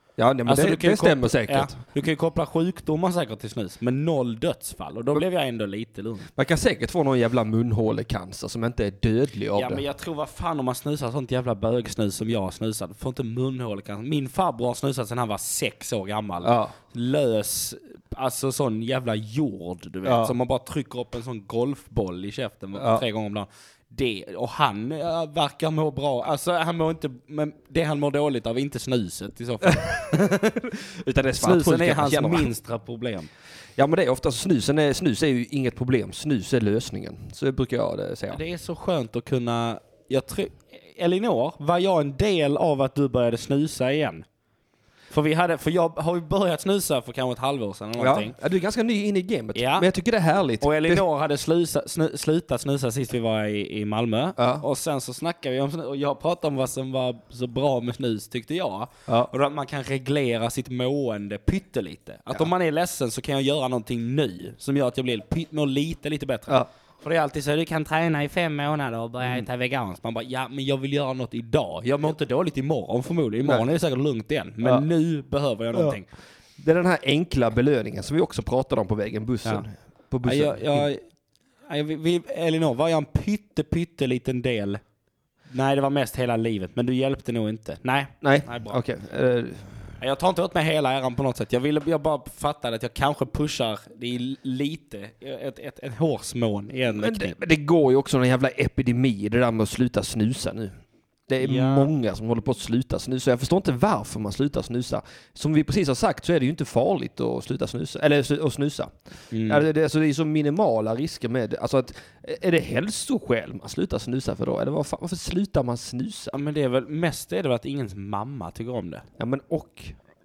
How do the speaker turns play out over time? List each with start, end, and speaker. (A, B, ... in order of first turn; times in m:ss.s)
0:00.2-0:01.8 A
0:00.5-0:06.3 B
0:06.4-0:09.8 A
0:09.6-0:30.3 B
0:16.4-0:16.8 A
0:20.0-0:20.4 A
0:22.8-0:23.0 A
0:30.1-0:32.5 A
0:31.4-0:33.3 B
0:33.8-0:38.4 A
0:38.3-0:44.2 B
0:45.1-0:48.4 B
0:48.0-0:51.1 A
0:49.6-0:49.9 B
0:50.6-1:16.1 B
0:54.4-0:54.6 A
0:59.1-0:59.3 A
1:14.6-1:14.9 A
1:16.6-1:20.9 A
1:20.2-1:21.0 B
1:21.7-1:24.8 B
1:25.5-1:28.8 B
1:28.2-1:29.9 A
1:30.0-1:37.4 B
1:36.9-1:40.8 A
1:41.3-1:56.3 A
1:41.4-1:41.9 B
1:49.3-1:49.6 B
1:56.3-1:59.1 B
1:59.2-2:00.0 A